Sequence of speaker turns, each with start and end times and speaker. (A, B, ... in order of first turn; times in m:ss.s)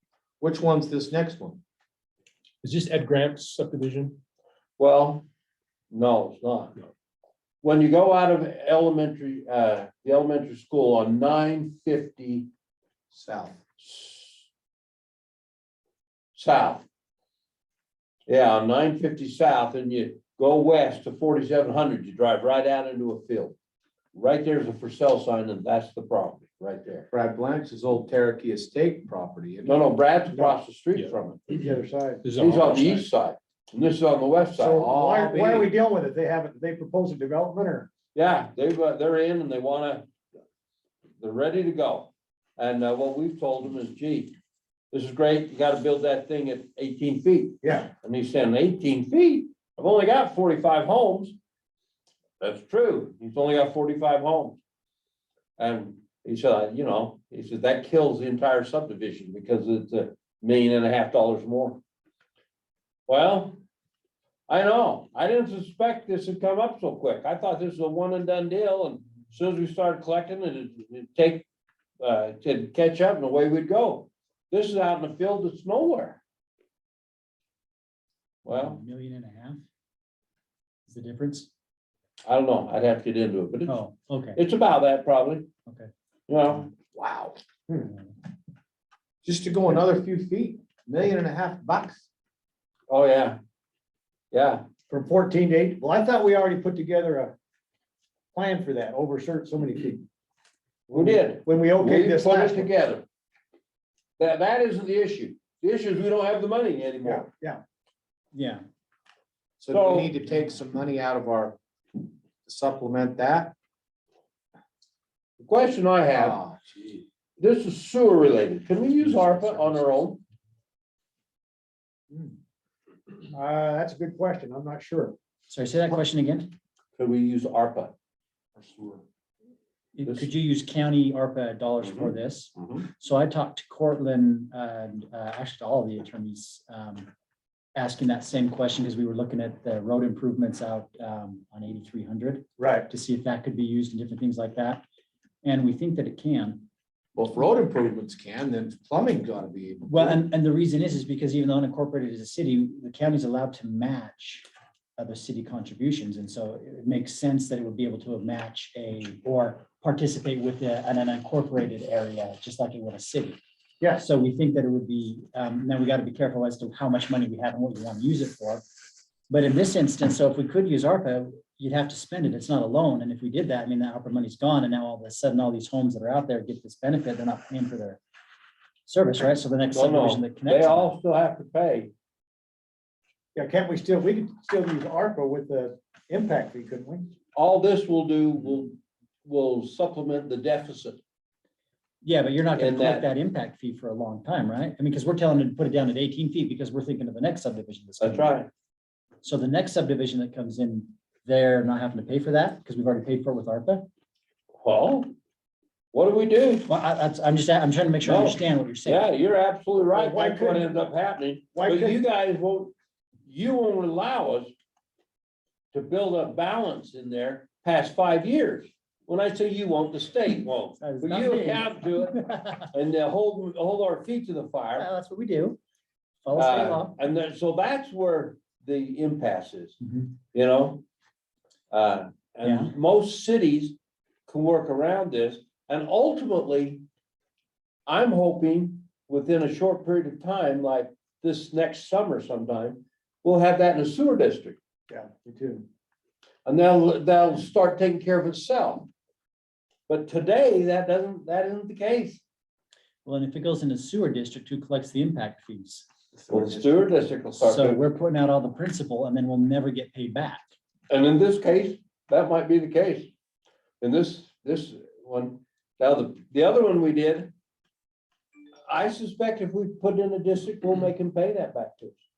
0:00.4-0:01.6 A
0:02.6-0:04.2 B
0:04.8-0:05.2 C
0:05.9-0:06.8 C
0:07.6-0:12.5 C
0:13.1-0:13.6 A
0:13.8-0:14.5 C
0:16.4-0:16.9 C
0:18.3-0:23.6 C
0:24.1-0:27.1 C
0:27.1-0:29.9 A
0:29.6-0:31.4 C
0:30.3-0:30.6 D
0:31.5-0:32.3 D
0:32.2-0:33.1 B
0:32.4-0:34.8 C
0:34.6-0:37.9 D
0:34.8-0:35.7 A
0:38.2-0:40.0 C
0:41.2-0:44.4 C
0:44.9-0:51.4 C
0:47.6-0:47.9 D
0:52.4-0:54.6 C
0:55.6-1:01.8 C
1:03.1-1:03.6 C
1:04.5-1:11.4 C
1:12.0-1:16.2 C
1:18.4-1:19.6 E
1:18.5-1:18.8 C
1:20.9-1:21.5 E
1:22.2-1:23.8 C
1:23.7-1:24.4 E
1:24.4-1:25.5 C
1:26.3-1:26.7 C
1:26.9-1:27.4 A
1:29.2-1:32.1 A
1:32.9-1:33.4 C
1:34.3-1:34.7 C
1:34.9-1:37.3 D
1:38.3-1:40.1 D
1:40.9-1:42.7 D
1:40.9-1:43.0 C
1:44.2-1:47.3 C
1:47.0-1:47.6 D
1:48.3-1:48.6 E
1:49.6-1:51.6 A
1:49.7-1:50.1 C
1:52.4-1:53.5 A
1:55.4-1:56.4 C
1:56.1-1:57.0 A
1:57.4-2:00.2 C
1:59.0-2:00.0 E
2:03.3-2:05.2 D
2:05.5-2:06.5 E
2:07.0-2:07.9 C
2:10.0-2:17.1 E
2:11.8-2:12.9 C
2:17.8-2:24.8 E
2:22.6-2:22.9 D
2:25.4-2:26.7 E
2:27.2-2:30.2 A
2:29.9-2:34.5 E
2:35.0-2:43.4 E
2:44.0-2:48.6 E
2:49.3-2:58.0 E
2:58.9-3:01.0 E
2:59.7-3:01.9 C
3:03.4-3:07.1 D
3:07.4-3:11.0 C
3:12.0-3:18.4 E
3:12.6-3:13.1 C
3:18.0-3:18.5 C
3:19.2-3:23.9 E
3:24.6-3:25.1 C
3:25.9-3:26.7 C
3:26.7-3:29.0 E
3:28.0-3:32.7 C
3:29.9-3:30.7 D
3:31.5-3:32.0 D
3:33.2-3:34.5 C
3:35.7-3:42.2 C
3:40.3-3:42.7 E
3:42.7-3:44.9 C
3:44.8-3:45.6 E
3:46.2-3:47.0 E
3:46.4-3:49.8 C
3:49.8-3:50.1 E
3:50.3-3:50.8 C
3:51.7-3:53.8 C
3:52.4-3:52.7 E
3:54.3-3:56.8 C
3:57.9-4:04.6 C
4:04.9-4:05.7 D
4:06.5-4:08.9 C
4:09.9-4:12.2 C
4:13.0-4:15.9 E
4:16.2-4:16.9 A
4:16.3-4:17.8 C
4:17.4-4:20.5 E
4:20.9-4:23.1 C
4:23.8-4:27.3 C
4:28.7-4:32.0 C